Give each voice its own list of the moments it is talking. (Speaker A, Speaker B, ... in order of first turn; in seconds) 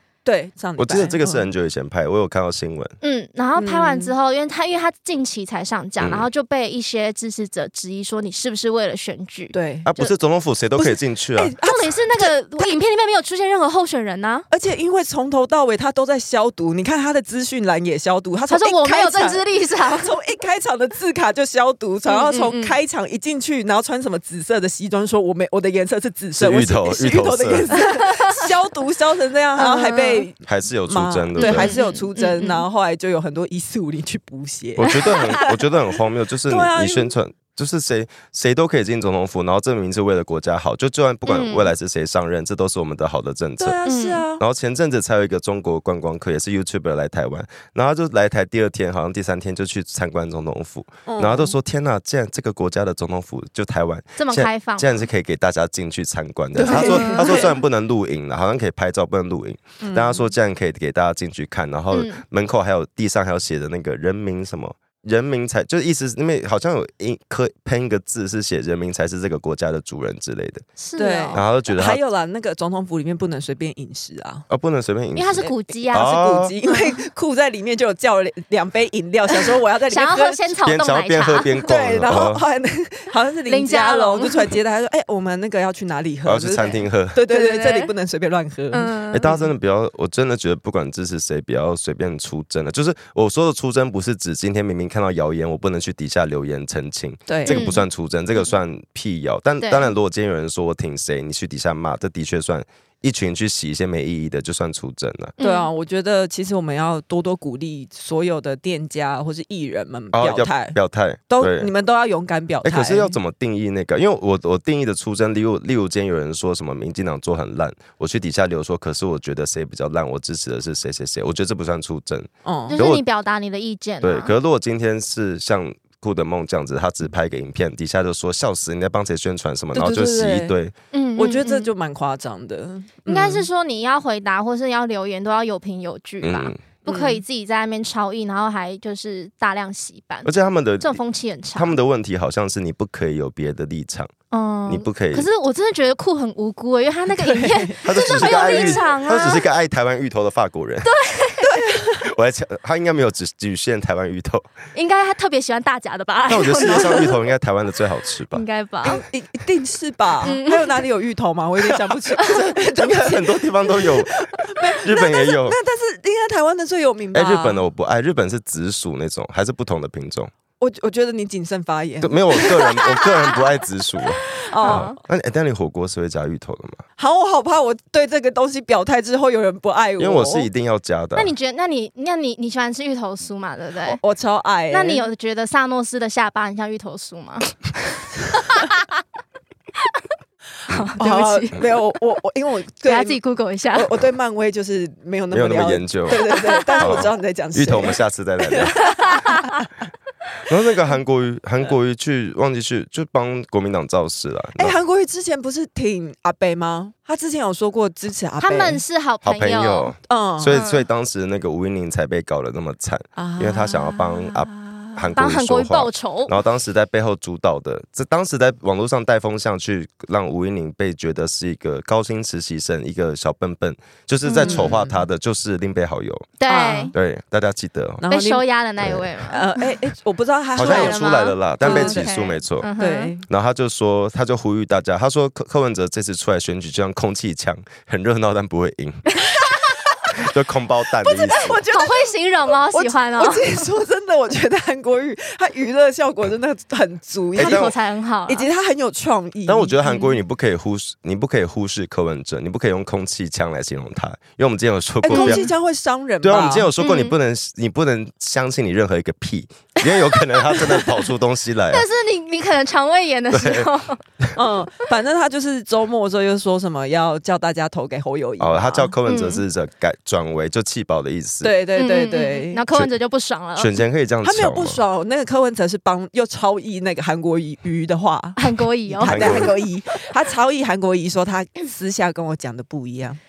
Speaker A: 0.2-1.5, 3.5-4.1, 9.5-9.9, 10.8-12.7, 14.5-35.5, 36.5-37.1, 43.6-44.4, 51.0-51.5, 56.5-57.5, 59.8-60.3, 71.0-74.5, 75.9-80.5, 81.6-88.9, 97.3-97.7, 105.4-110.8, 111.3-113.2, 122.4-122.8, 129.7-130.5, 131.1-133.5, 136.8-137.2, 147.2-148.8, 151.4-152.0, 156.6-157.0, 158.8-167.6, 170.6-173.3, 174.3-174.9, 177.0-180.5, 183.8-185.0, 191.0-193.2, 193.7-199.7, 204.6-208.8, 210.1-210.6, 213.2-215.0, 224.4-225.0, 226.5-226.9, 228.0-228.4, 229.3-231.0, 231.6-232.1, 232.8-233.2, 239.4-240.2, 241.0-242.1, 242.7-247.7, 248.3-249.8, 255.0-256.7, 264.3-268.9, 271.4-272.6, 274.2-283.2
Speaker B: 0.8-2.9, 6.0-6.3, 9.8-11.5, 26.4-27.7, 30.4-31.7, 34.8-43.8, 44.4-70.7, 71.3-72.0, 74.5-76.5, 80.6-82.4, 86.2-87.2, 89.1-105.3, 110.1-111.7, 112.6-123.0, 124.0-130.7, 136.2-136.6, 140.2-141.0, 141.5-144.1, 144.7-145.3, 147.8-150.9, 152.0-154.5, 156.3-158.4, 162.1-165.6, 167.1-170.3, 172.0-176.8, 180.0-181.3, 195.3-198.9, 200.4-204.8, 209.2-226.3, 226.9-228.0, 228.8-229.1, 230.6-232.7, 233.2-239.2, 240.1-241.6, 247.3-247.7, 249.5-255.5, 256.2-261.8, 263.3-263.7, 268.4-271.6, 273.6-274.8, 279.0-279.5
Speaker C: 3.0-9.5, 11.6-14.5, 18.5-20.1, 22.1-22.8, 28.0-28.5, 29.6-30.2, 31.4-32.6, 34.9-35.4, 41.3-41.7, 43.9-44.2, 54.2-55.1, 56.7-57.5, 61.9-62.2, 70.8-71.4, 75.1-76.2, 79.9-82.2, 83.5-84.5, 87.3-87.9, 88.7-89.3, 97.5-97.8, 99.6-99.9, 105.4-105.7, 122.7-124.3, 130.9-131.7, 133.1-140.3, 140.8-141.8, 144.3-149.4, 150.8-151.7, 154.7-157.2, 158.3-159.0, 160.2-160.8, 174.6-174.9, 181.1-184.0, 184.7-188.8, 190.7-191.7, 192.8-193.9, 196.3-197.1, 198.8-199.5, 208.4-209.9, 210.5-210.9, 215.1-216.3, 224.2-224.7, 226.4-226.9, 228.1-229.5, 230.6-233.1, 241.7-243.7, 247.4-248.5, 249.8-250.1, 255.1-255.4, 256.8-257.1, 259.9-260.9, 261.7-264.0, 269.1-269.4, 271.8-273.8, 278.4-279.5